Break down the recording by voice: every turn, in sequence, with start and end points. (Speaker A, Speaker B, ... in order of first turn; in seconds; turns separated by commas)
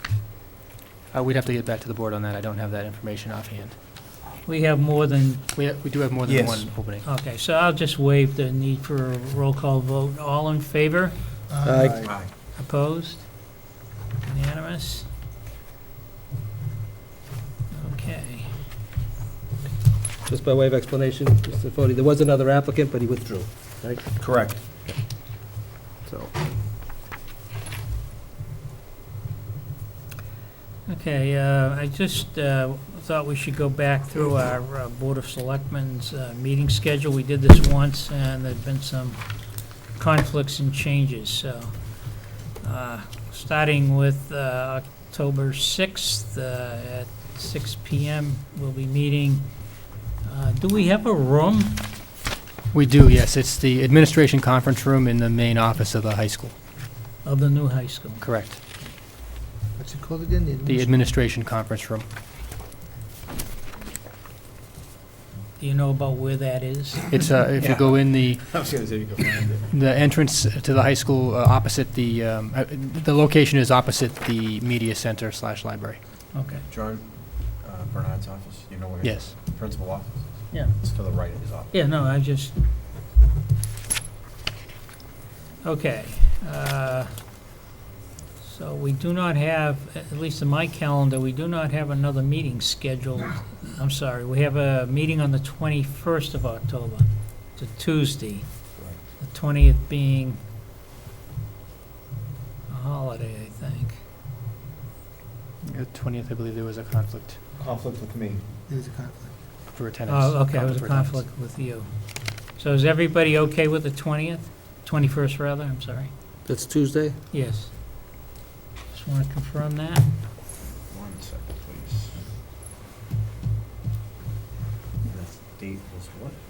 Speaker A: 1.1-3.7, Speaker B: 4.4-5.5, Speaker A: 5.5-7.0, Speaker C: 6.2-6.7, Speaker B: 7.0-11.2, Speaker D: 11.5-12.1, Speaker E: 11.6-12.0, Speaker C: 11.9-12.3, Speaker B: 12.4-13.6, Speaker B: 14.2-15.1, Speaker B: 17.7-18.6, Speaker E: 20.2-26.4, Speaker C: 24.2-24.6, Speaker B: 30.9-52.0, Speaker A: 52.7-56.5, Speaker B: 57.2-58.2, Speaker A: 58.2-58.6, Speaker D: 59.8-61.0, Speaker A: 60.6-62.0, Speaker B: 65.6-67.3, Speaker A: 67.1-68.4, Speaker C: 67.5-69.7, Speaker A: 69.7-76.0, Speaker B: 76.3-76.7, Speaker C: 76.7-81.7, Speaker A: 79.0-79.3, Speaker B: 80.5-82.6, Speaker B: 85.6-87.1, Speaker B: 88.4-100.4, Speaker B: 102.7-104.0, Speaker A: 105.6-107.4, Speaker C: 107.6-108.5, Speaker D: 108.7-109.3, Speaker A: 109.7-111.2, Speaker B: 110.1-116.1, Speaker E: 116.5-117.2, Speaker B: 117.3-117.7, Speaker B: 118.9-120.1, Speaker C: 120.9-122.3, Speaker C: 125.1-126.4